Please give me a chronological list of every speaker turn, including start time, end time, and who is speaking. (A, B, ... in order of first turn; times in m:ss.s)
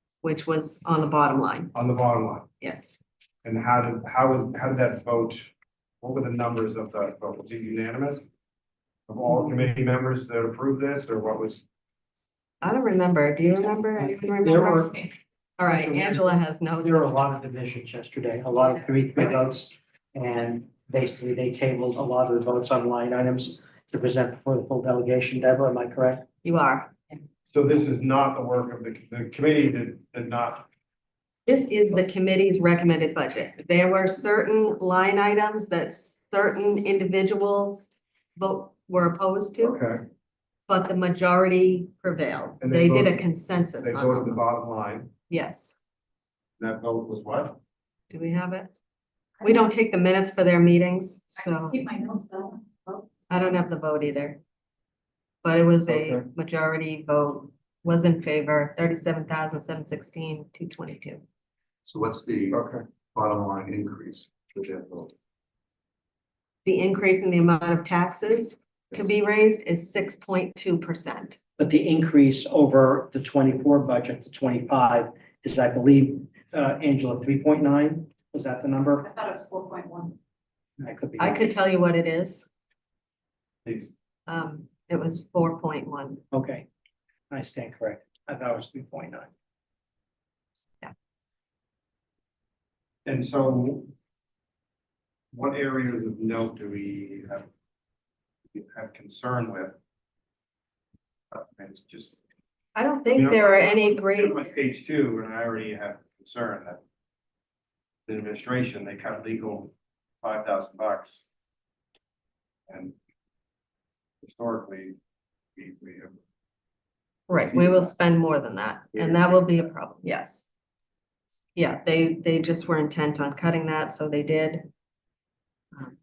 0:00.2-0:01.7 A
0:01.7-0:02.5 B
0:02.6-0:03.0 A
0:03.4-0:05.5 B
0:06.0-0:08.3 B
0:09.1-0:11.6 B
0:12.6-0:17.0 A
0:14.0-0:15.1 C
0:15.6-0:26.3 C
0:26.4-0:26.9 A
0:27.5-0:30.7 B
0:31.5-0:39.8 A
0:39.6-0:40.0 B
0:40.7-0:44.4 A
0:42.6-0:43.2 B
0:43.8-0:45.1 B
0:45.3-0:45.8 A
0:46.6-0:47.6 B
0:48.1-0:48.8 A
0:49.4-0:51.9 A
0:51.4-0:53.5 D
0:53.3-0:54.4 A
0:55.4-1:01.2 A
0:55.9-0:56.3 B
1:01.8-1:02.6 E
1:02.5-1:02.8 B
1:03.2-1:05.1 E
1:06.6-1:11.4 A
1:11.6-1:19.1 C
1:19.1-1:20.2 D
1:20.8-1:21.4 C
1:21.2-1:22.5 A
1:23.6-1:23.9 B
1:24.3-1:26.2 A
1:26.3-1:26.7 C
1:27.3-1:29.3 C
1:33.0-1:33.9 B
1:35.3-1:37.5 B
1:38.5-1:39.8 B
1:41.3-1:42.2 B
1:42.8-1:44.5 A
1:43.2-1:46.8 B
1:48.1-1:51.3 B
1:52.7-1:52.9 B
1:54.2-1:55.0 B
1:55.6-1:56.2 B
1:57.3-2:00.5 A
1:57.5-1:57.9 B
1:59.0-1:59.4 B
2:01.5-2:04.7 A